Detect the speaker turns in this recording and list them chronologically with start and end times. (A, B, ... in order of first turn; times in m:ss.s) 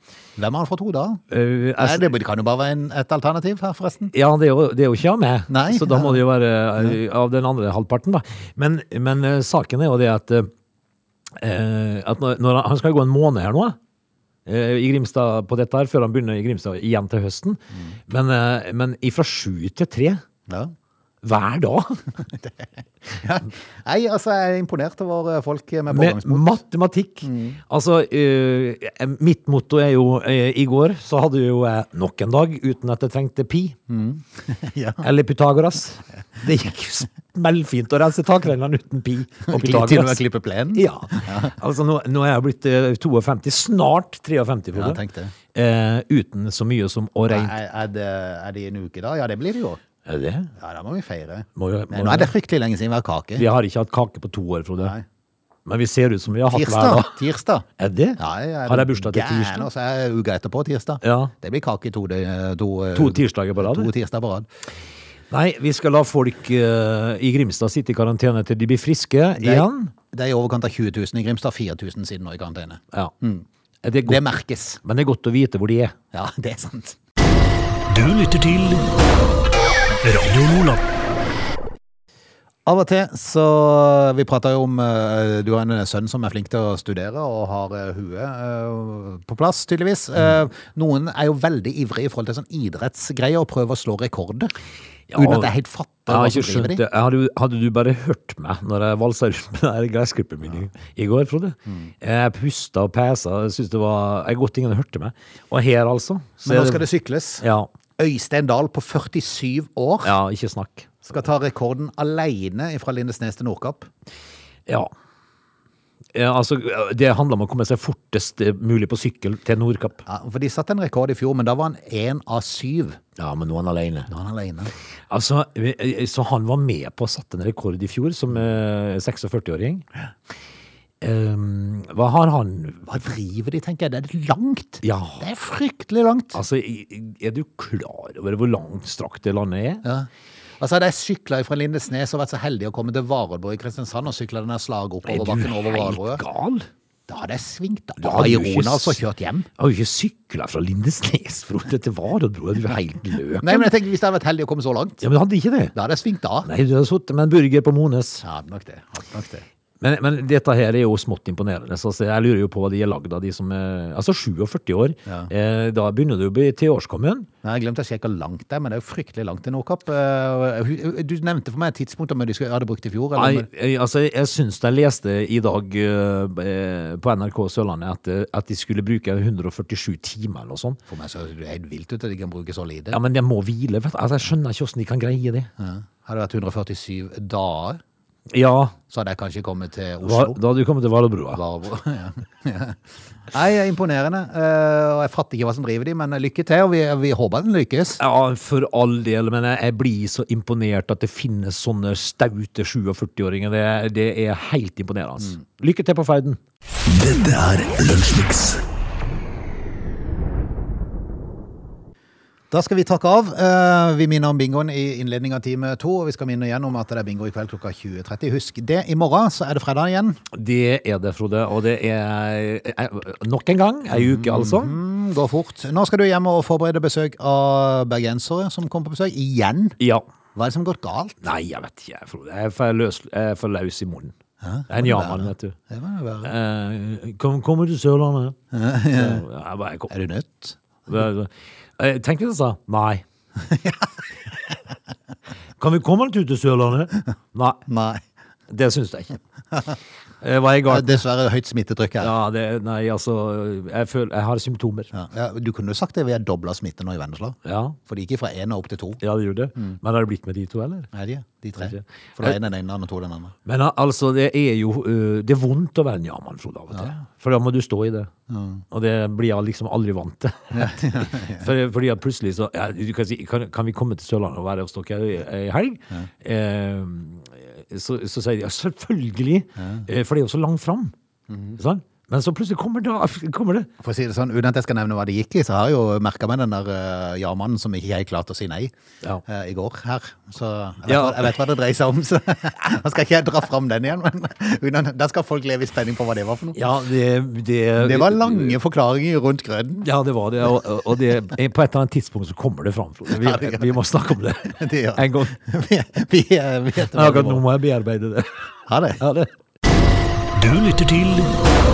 0:00.4-0:01.2 A
0:01.3-0:02.1 B
0:01.8-0:04.1 A
0:04.1-0:10.5 B
0:05.5-0:06.2 A
0:11.4-0:13.8 B
0:14.4-0:20.2 B
0:20.5-0:20.7 A
0:21.2-0:22.0 B
0:23.2-0:26.6 A
0:25.9-0:33.8 B
0:27.2-0:27.6 A
0:33.9-0:35.0 A
0:35.0-0:40.2 B
0:39.4-0:41.5 A
0:40.7-0:47.5 B
0:44.7-0:45.3 A
0:47.3-0:49.8 A
0:50.0-0:50.5 B
0:50.6-0:53.4 A
0:51.6-0:52.3 B
0:53.4-0:54.9 B
0:55.6-0:57.2 B
0:56.5-0:57.6 A
0:57.8-0:59.7 B
0:58.2-1:04.5 A
1:01.0-1:01.3 B
1:02.9-1:03.9 B
1:05.3-1:09.9 B
1:09.4-1:13.4 A
1:13.8-1:14.2 B
1:14.0-1:14.8 A
1:14.8-1:16.0 B
1:16.1-1:17.0 A
1:17.9-1:18.9 C
1:20.0-1:20.8 C
1:22.6-1:34.5 A
1:35.1-1:35.5 B
1:35.1-1:36.8 A
1:36.1-1:46.9 B
1:46.4-1:47.4 A
1:47.4-1:47.7 B
1:48.0-1:50.1 A
1:50.0-1:51.0 B
1:51.0-1:53.9 A
1:54.7-1:54.9 B
1:56.1-2:00.0 B
2:00.0-2:03.0 A
2:03.2-2:04.1 B
2:04.1-2:04.7 A
2:05.1-2:09.8 B
2:11.0-2:12.9 B
2:12.8-2:16.4 A
2:14.8-2:15.2 B
2:16.3-2:19.8 B
2:20.6-2:26.2 A
2:25.0-2:26.7 B
2:27.1-2:29.5 A
2:28.0-2:29.0 B
2:29.6-2:33.7 B
2:33.4-2:35.0 A
2:35.0-2:35.7 B
2:35.7-2:36.5 A
2:36.4-2:38.2 B
2:38.2-2:39.4 A
2:39.8-2:47.3 B
2:47.4-2:53.5 A
2:53.1-3:00.8 B
3:00.9-3:03.0 A
3:02.9-3:05.5 B
3:05.6-3:07.8 A
3:08.3-3:08.8 B
3:08.9-3:10.4 A
3:10.0-3:11.4 B
3:11.3-3:12.8 A
3:13.3-3:18.0 A
3:18.0-3:26.4 B
3:26.9-3:28.6 C
3:32.5-3:40.2 A
3:40.3-3:44.8 B
3:43.9-3:49.8 A
3:49.8-3:50.0 B
3:50.3-3:51.2 A
3:51.2-3:54.1 B
3:54.4-3:56.3 A
3:54.7-3:55.6 B
3:56.2-3:58.4 B
3:58.5-3:59.2 A
3:58.9-3:59.9 B
3:59.9-4:00.6 A
4:00.9-4:03.0 B
4:03.4-4:03.9 A
4:05.6-4:07.6 B
4:07.7-4:08.0 A
4:08.5-4:09.2 B
4:10.2-4:11.0 B
4:10.7-4:12.1 A
4:12.0-4:14.9 B
4:14.9-4:19.0 A
4:17.4-4:17.8 B
4:19.0-4:20.9 B
4:20.9-4:23.3 A
4:21.6-4:22.4 B
4:23.4-4:28.1 B
4:28.3-4:28.6 A
4:28.7-4:40.9 B
4:30.5-4:31.5 A
4:39.6-4:39.8 A
4:41.3-4:41.6 A
4:41.6-4:43.7 B
4:43.8-4:48.7 A
4:49.2-4:56.6 A
4:50.8-4:51.3 B
4:56.5-4:58.6 B
4:57.8-4:59.9 A
4:59.8-5:05.3 B
5:03.1-5:03.8 A
5:04.5-5:07.4 A
5:06.8-5:08.4 B
5:08.7-5:09.0 A
5:09.0-5:09.3 B
5:10.3-5:11.4 C